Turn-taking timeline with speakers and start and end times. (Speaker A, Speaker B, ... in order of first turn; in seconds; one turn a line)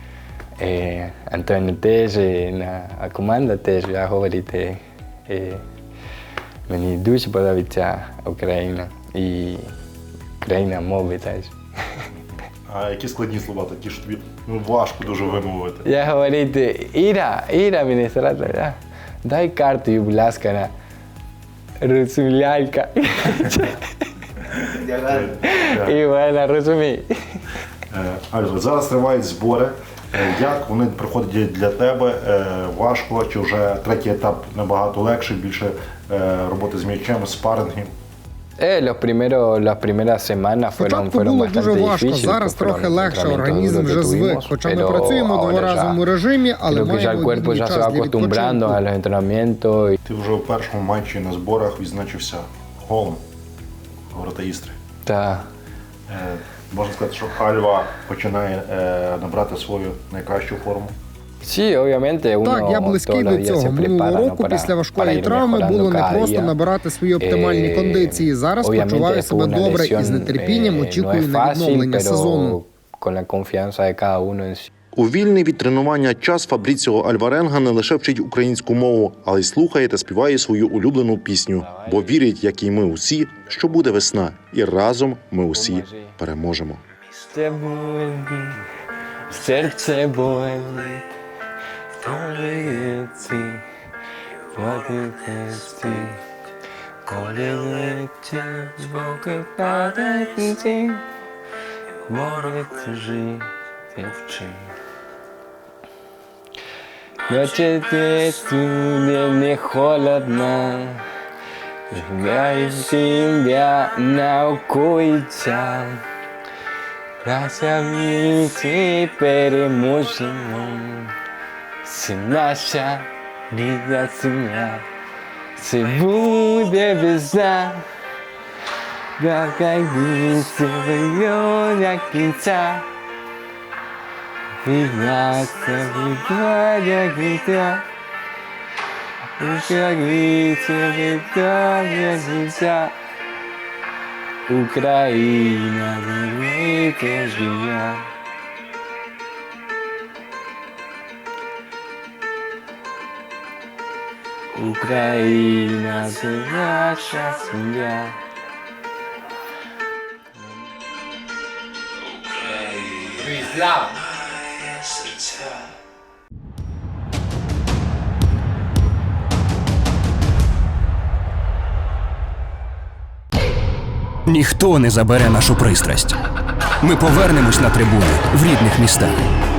Speaker A: 0.6-5.6
Speaker A: 6.7-9.7
Speaker A: 10.4-11.5
Speaker B: 12.7-15.9
Speaker A: 15.8-20.7
Speaker A: 21.8-24.1
Speaker A: 24.7-27.4
Speaker B: 25.0-25.9
Speaker B: 27.9-37.9
Speaker A: 38.6-46.0
Speaker C: 40.8-48.8
Speaker A: 46.7-50.0
Speaker B: 50.1-53.2
Speaker B: 54.1-54.8
Speaker A: 55.0-55.5
Speaker B: 56.1-61.0
Speaker A: 61.4-66.6
Speaker C: 62.4-72.6
Speaker A: 67.2-74.7
Speaker B: 75.0-86.8
Speaker A: 81.6-82.2
Speaker A: 85.5-86.2
Speaker A: 87.2-88.6
Speaker A: 89.3-91.0
Speaker A: 92.0-93.6
Speaker A: 94.5-96.2
Speaker A: 97.1-101.0
Speaker A: 102.1-104.7
Speaker A: 107.2-111.0
Speaker A: 111.9-116.0
Speaker A: 117.2-121.1
Speaker A: 121.8-124.9
Speaker A: 125.6-127.9
Speaker A: 129.2-132.9
Speaker A: 134.6-137.9
Speaker A: 139.4-142.9
Speaker A: 144.5-148.1
Speaker A: 154.5-158.2
Speaker A: 162.3-164.2
Speaker D: 174.3-176.2
Speaker D: 176.8-179.2